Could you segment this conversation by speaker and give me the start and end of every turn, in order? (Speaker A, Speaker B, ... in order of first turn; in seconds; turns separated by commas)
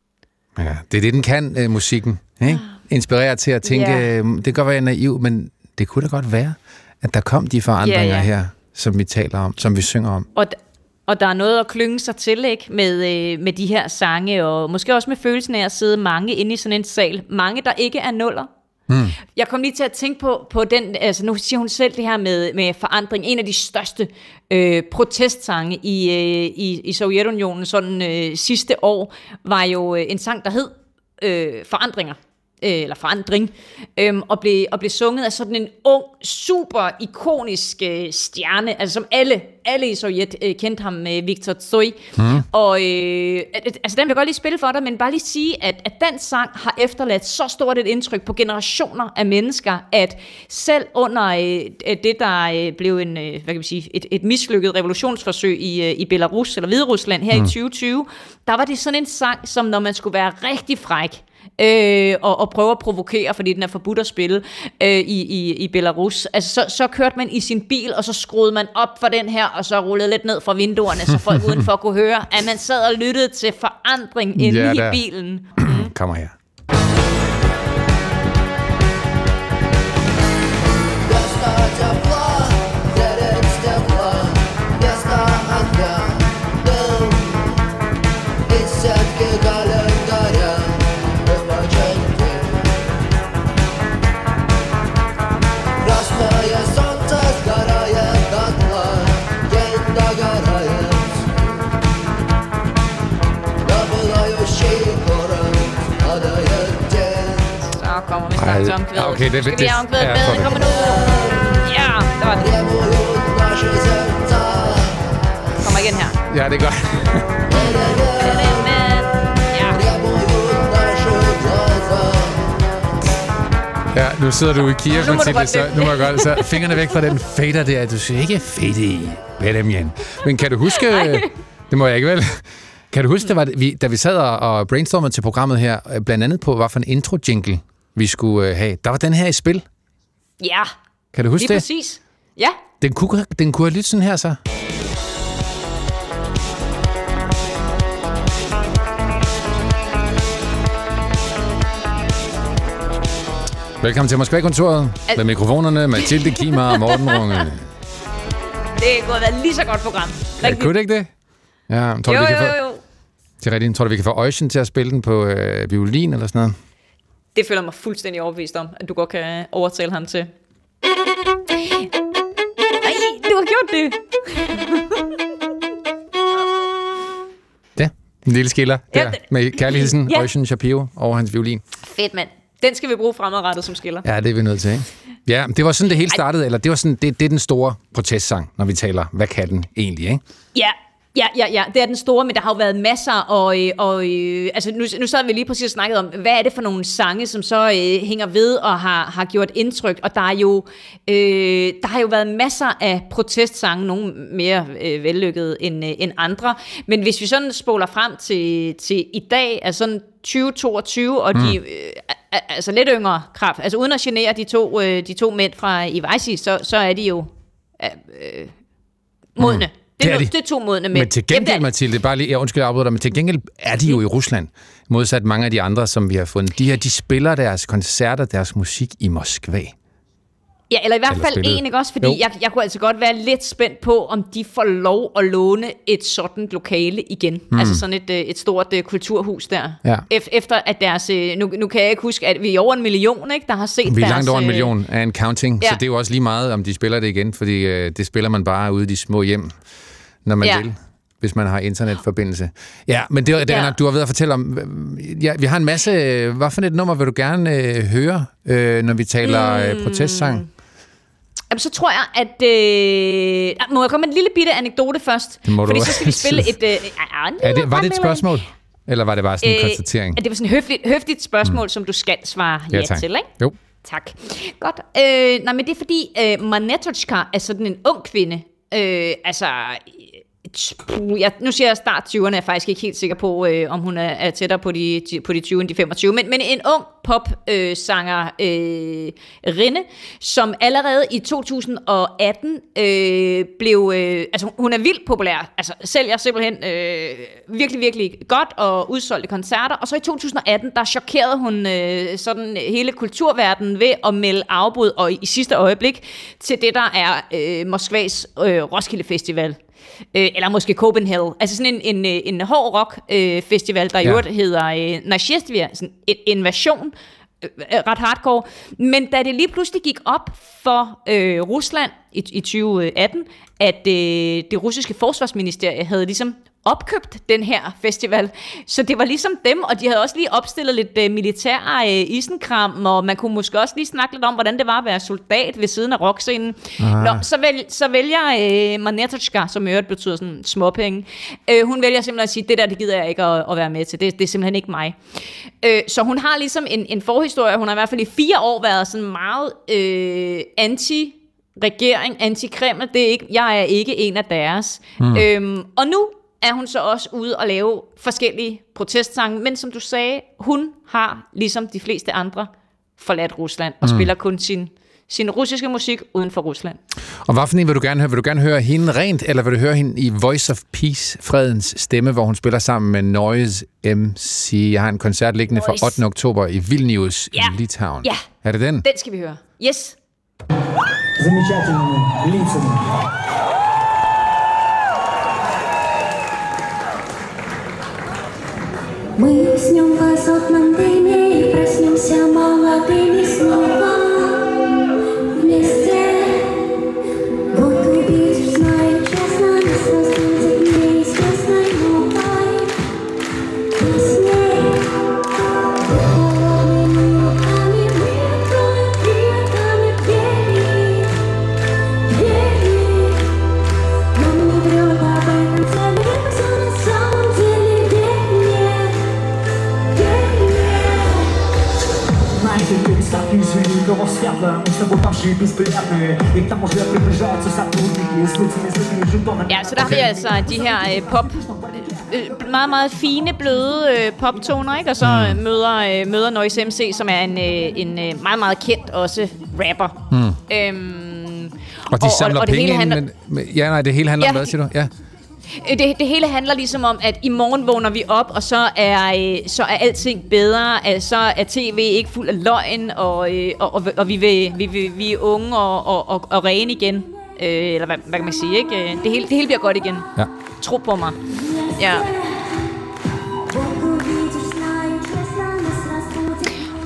Speaker A: 0.6-10.3, Speaker B: 3.6-4.1, Speaker B: 7.8-8.3, Speaker B: 10.4-18.5, Speaker A: 18.9-19.2, Speaker B: 19.3-75.9, Speaker A: 42.2-42.5, Speaker A: 74.4-75.0, Speaker A: 75.6-76.3, Speaker B: 107.5-112.9, Speaker A: 108.4-110.7, Speaker B: 115.6-116.2, Speaker A: 116.3-117.6, Speaker B: 117.5-120.0, Speaker A: 123.9-139.6, Speaker B: 124.9-126.6, Speaker B: 130.7-131.2, Speaker B: 140.4-140.7, Speaker A: 141.1-141.6, Speaker B: 141.4-142.6, Speaker A: 142.8-144.4, Speaker A: 153.8-157.6, Speaker B: 156.0-157.4, Speaker B: 158.8-160.7, Speaker A: 160.4-161.1, Speaker A: 161.7-162.6, Speaker B: 162.1-162.8, Speaker A: 163.4-166.6, Speaker B: 167.3-170.3, Speaker B: 172.8-175.1, Speaker A: 177.8-181.6, Speaker B: 178.9-180.3, Speaker B: 181.8-184.1, Speaker A: 184.0-190.2, Speaker B: 190.5-218.5, Speaker B: 219.3-221.6, Speaker A: 219.4-220.3, Speaker A: 220.9-229.7, Speaker B: 230.7-244.7, Speaker A: 231.1-232.2, Speaker A: 237.5-237.8, Speaker A: 243.8-249.6, Speaker A: 250.2-260.4, Speaker B: 253.4-253.8, Speaker B: 259.2-260.5, Speaker B: 261.5-268.3, Speaker A: 265.5-266.5, Speaker A: 267.4-270.2, Speaker B: 269.4-273.3, Speaker A: 272.7-273.6, Speaker B: 273.8-309.6, Speaker B: 310.1-345.0, Speaker A: 336.8-337.2, Speaker B: 345.6-366.8, Speaker A: 355.0-355.3, Speaker A: 363.8-364.1, Speaker A: 367.3-378.9, Speaker B: 375.5-376.0, Speaker B: 377.3-378.2, Speaker B: 378.8-380.0, Speaker C: 381.2-383.0, Speaker D: 389.1-394.5, Speaker D: 395.4-396.7, Speaker D: 397.5-402.7, Speaker D: 403.8-404.9, Speaker D: 405.6-411.1, Speaker D: 412.1-413.2, Speaker D: 414.1-419.0, Speaker D: 419.9-421.1, Speaker C: 422.4-431.8, Speaker B: 429.5-440.0, Speaker A: 435.0-435.4, Speaker A: 440.1-440.4, Speaker B: 440.5-443.0, Speaker A: 441.9-444.9, Speaker B: 444.2-444.5, Speaker B: 445.5-460.1, Speaker B: 460.6-461.2, Speaker D: 461.3-462.7, Speaker B: 461.8-462.1, Speaker D: 463.5-466.6